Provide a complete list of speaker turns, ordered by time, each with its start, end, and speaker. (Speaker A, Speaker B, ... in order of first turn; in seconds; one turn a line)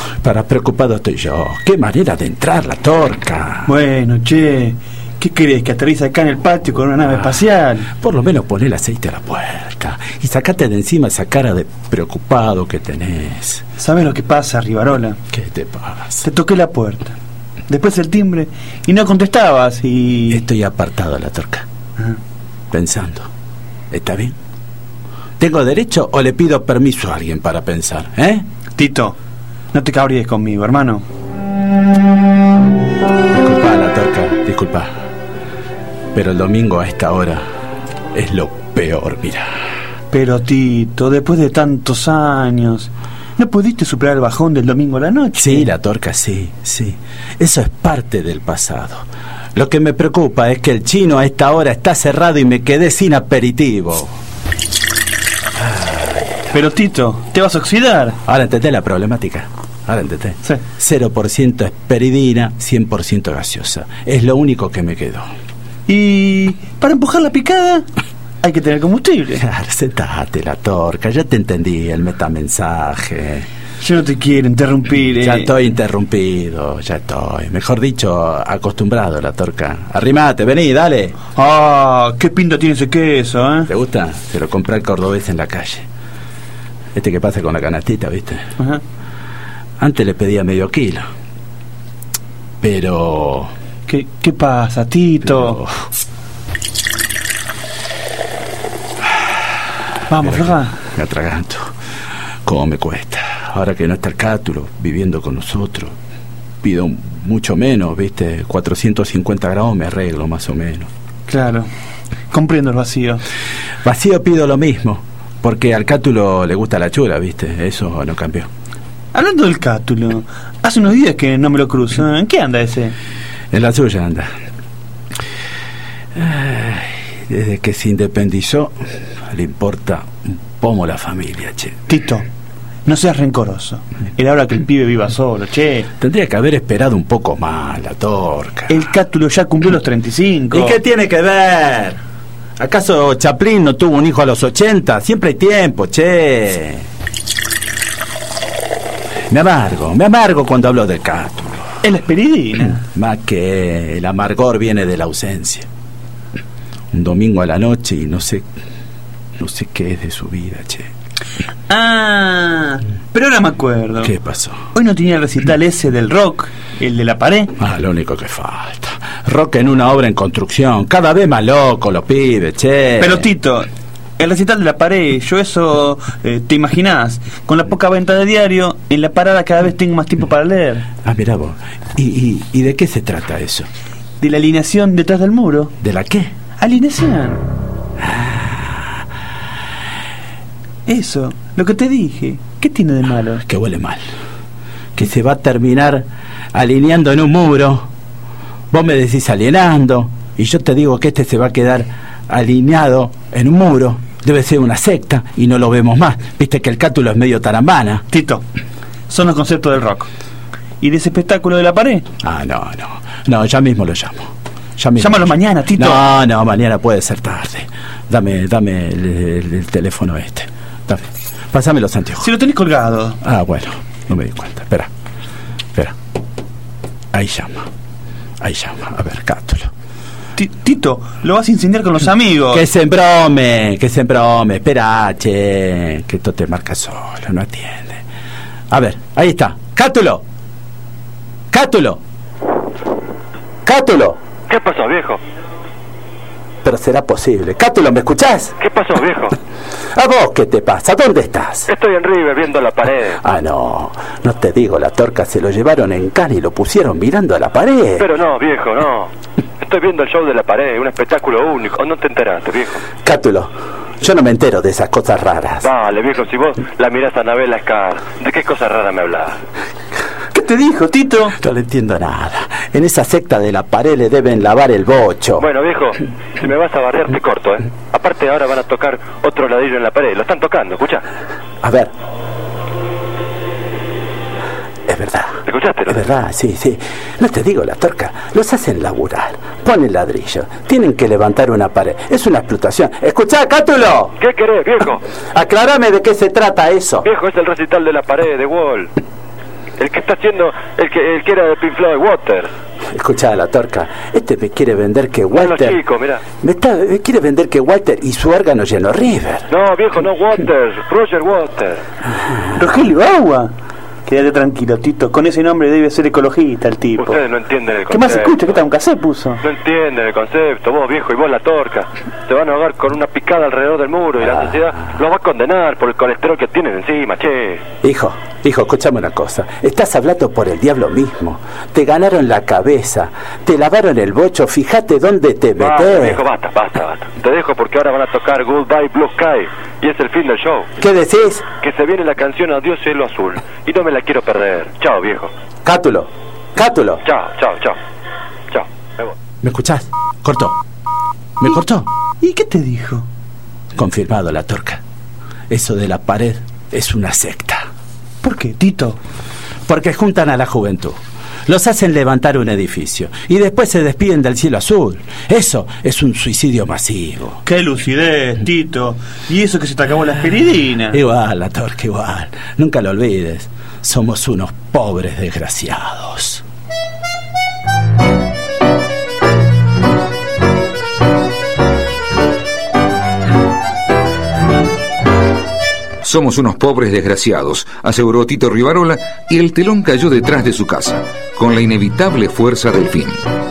Speaker A: 0.2-3.7
Speaker B: 3.7-7.9
Speaker A: 8.0-13.6
Speaker B: 13.8-15.2
Speaker A: 15.3-16.2
Speaker B: 16.2-17.2
Speaker B: 17.7-20.4
Speaker A: 20.3-21.7
Speaker A: 22.7-23.3
Speaker A: 23.9-24.4
Speaker A: 25.4-28.4
Speaker B: 28.8-29.2
Speaker B: 29.7-31.0
Speaker A: 33.3-34.9
Speaker A: 36.1-37.4
Speaker A: 38.1-39.5
Speaker B: 40.1-45.7
Speaker A: 45.4-54.1
Speaker A: 55.6-56.5
Speaker B: 56.5-58.2
Speaker A: 58.3-65.3
Speaker B: 65.9-67.8
Speaker B: 68.4-69.4
Speaker A: 69.4-73.5
Speaker B: 73.8-75.5
Speaker A: 75.2-81.2
Speaker B: 81.3-83.7
Speaker A: 83.7-85.9
Speaker A: 86.9-88.5
Speaker A: 89.8-91.1
Speaker A: 92.6-93.5
Speaker B: 93.9-95.6
Speaker A: 95.4-95.7
Speaker B: 100.1-100.8
Speaker A: 100.2-101.7
Speaker A: 102.5-105.9
Speaker A: 106.6-110.9
Speaker B: 111.3-111.7
Speaker B: 112.3-113.2
Speaker A: 113.8-118.5
Speaker B: 119.1-123.0
Speaker A: 123.5-124.3
Speaker A: 126.2-128.8
Speaker A: 129.3-131.8
Speaker B: 131.9-132.2
Speaker B: 132.9-135.9
Speaker A: 136.0-138.8
Speaker B: 138.7-140.8
Speaker A: 140.5-142.0
Speaker A: 142.6-146.8
Speaker A: 149.3-151.7
Speaker B: 151.8-152.8
Speaker A: 152.9-155.7
Speaker A: 156.9-158.5
Speaker A: 159.4-160.9
Speaker B: 161.7-164.1
Speaker A: 164.0-164.6
Speaker B: 164.7-167.5
Speaker A: 167.6-173.2
Speaker B: 173.0-173.7
Speaker B: 174.2-180.9
Speaker A: 181.0-183.7
Speaker B: 184.2-185.7
Speaker A: 185.8-186.3
Speaker B: 186.6-187.4
Speaker A: 188.1-188.7
Speaker B: 190.9-193.4
Speaker A: 193.5-194.0
Speaker A: 195.0-197.9
Speaker A: 198.7-208.0
Speaker B: 208.1-208.4
Speaker B: 209.1-210.1
Speaker B: 210.8-212.1
Speaker A: 212.2-222.3
Speaker B: 215.0-216.1
Speaker B: 222.2-223.2
Speaker A: 223.2-224.9
Speaker A: 227.1-227.7
Speaker A: 228.4-229.7
Speaker B: 230.4-232.7
Speaker A: 232.5-238.0
Speaker A: 238.7-240.2
Speaker A: 241.5-242.0
Speaker A: 243.7-244.2
Speaker C: 244.5-245.2
Speaker A: 246.6-248.6
Speaker C: 248.6-249.4
Speaker A: 249.9-251.7
Speaker C: 251.7-253.2
Speaker A: 253.2-258.1
Speaker C: 258.0-262.9
Speaker A: 263.1-265.7
Speaker C: 265.6-269.4
Speaker B: 270.3-271.4
Speaker A: 271.4-275.5
Speaker C: 275.4-281.1
Speaker A: 281.6-281.9
Speaker A: 284.9-285.4
Speaker C: 285.5-286.0
Speaker A: 285.9-294.1
Speaker C: 294.2-295.0
Speaker A: 295.3-297.1
Speaker C: 297.1-298.9
Speaker C: 299.8-302.5
Speaker A: 302.9-305.8
Speaker C: 305.3-306.2
Speaker A: 306.4-309.5
Speaker C: 309.5-311.8
Speaker B: 312.5-313.5
Speaker B: 314.1-317.2
Speaker C: 317.0-318.4
Speaker B: 317.9-319.4
Speaker C: 319.4-327.6
Speaker A: 324.2-324.9
Speaker A: 327.8-336.2
Speaker C: 335.6-340.7
Speaker A: 340.8-341.4
Speaker C: 341.5-345.3
Speaker A: 345.6-347.0
Speaker C: 347.0-347.8
Speaker C: 348.5-349.1
Speaker A: 349.4-350.6
Speaker A: 351.4-351.9
Speaker B: 352.2-353.1
Speaker A: 353.8-354.8
Speaker A: 355.5-357.6
Speaker B: 358.2-359.0
Speaker A: 359.7-367.4
Speaker B: 367.4-371.0
Speaker A: 370.9-376.4
Speaker D: 386.0-393.3